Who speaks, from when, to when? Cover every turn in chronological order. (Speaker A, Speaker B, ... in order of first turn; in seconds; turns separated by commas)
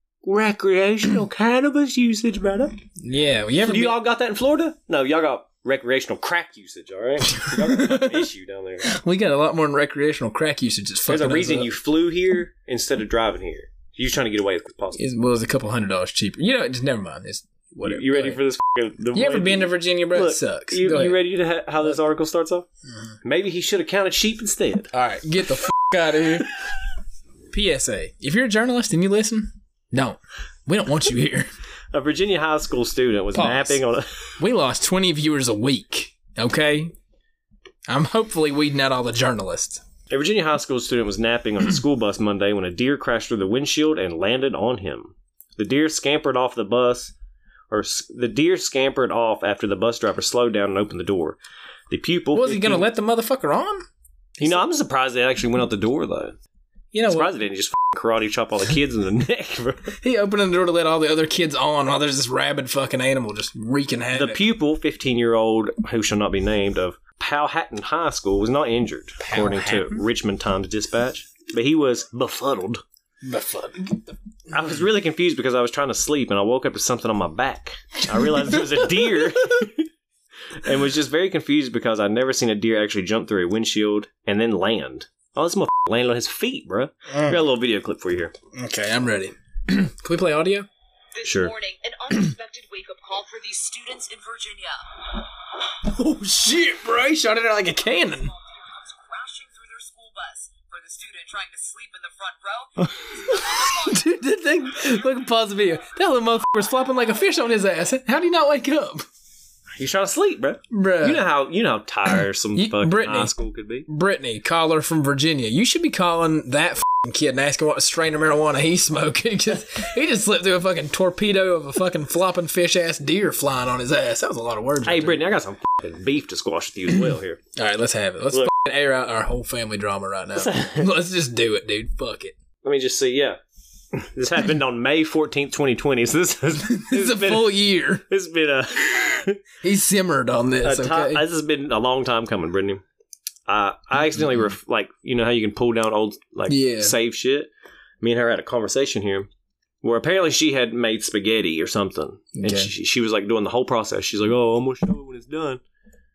Speaker A: 0.2-2.8, Speaker B: 3.0-4.0, Speaker A: 3.6-8.9, Speaker B: 7.3-8.2, Speaker B: 8.8-11.7, Speaker A: 11.1-15.0, Speaker B: 14.9-18.4, Speaker A: 17.8-22.6, Speaker B: 19.1-21.2, Speaker B: 22.9-23.1, Speaker A: 23.2-24.9, Speaker B: 24.9-26.5, Speaker B: 27.5-31.5, Speaker A: 31.9-34.1, Speaker B: 33.3-33.8, Speaker B: 34.4-36.9, Speaker B: 37.9-39.8, Speaker A: 40.1-47.1, Speaker A: 47.7-51.4, Speaker A: 51.9-52.9, Speaker B: 52.3-53.8, Speaker A: 54.4-56.4, Speaker B: 56.9-57.3, Speaker A: 57.1-60.0, Speaker B: 60.0-64.5, Speaker A: 64.1-72.8, Speaker B: 69.2-70.0, Speaker B: 73.2-74.1, Speaker A: 74.5-79.9, Speaker A: 80.5-88.3, Speaker B: 87.1-87.4, Speaker B: 88.5-90.7, Speaker C: 91.1-94.8, Speaker A: 91.2-91.5, Speaker B: 95.8-98.3, Speaker C: 98.1-104.0, Speaker B: 103.7-109.0, Speaker A: 109.8-113.9, Speaker B: 110.7-111.2, Speaker B: 112.5-113.3, Speaker B: 113.8-125.2, Speaker A: 124.8-127.4, Speaker B: 127.5-132.3, Speaker A: 130.3-130.9, Speaker A: 132.6-133.4, Speaker A: 133.9-139.4, Speaker B: 136.7-138.0, Speaker B: 139.6-141.2, Speaker A: 140.6-142.8, Speaker A: 143.5-147.5, Speaker B: 146.5-146.9, Speaker A: 148.0-149.3, Speaker A: 149.8-155.6, Speaker B: 152.3-152.7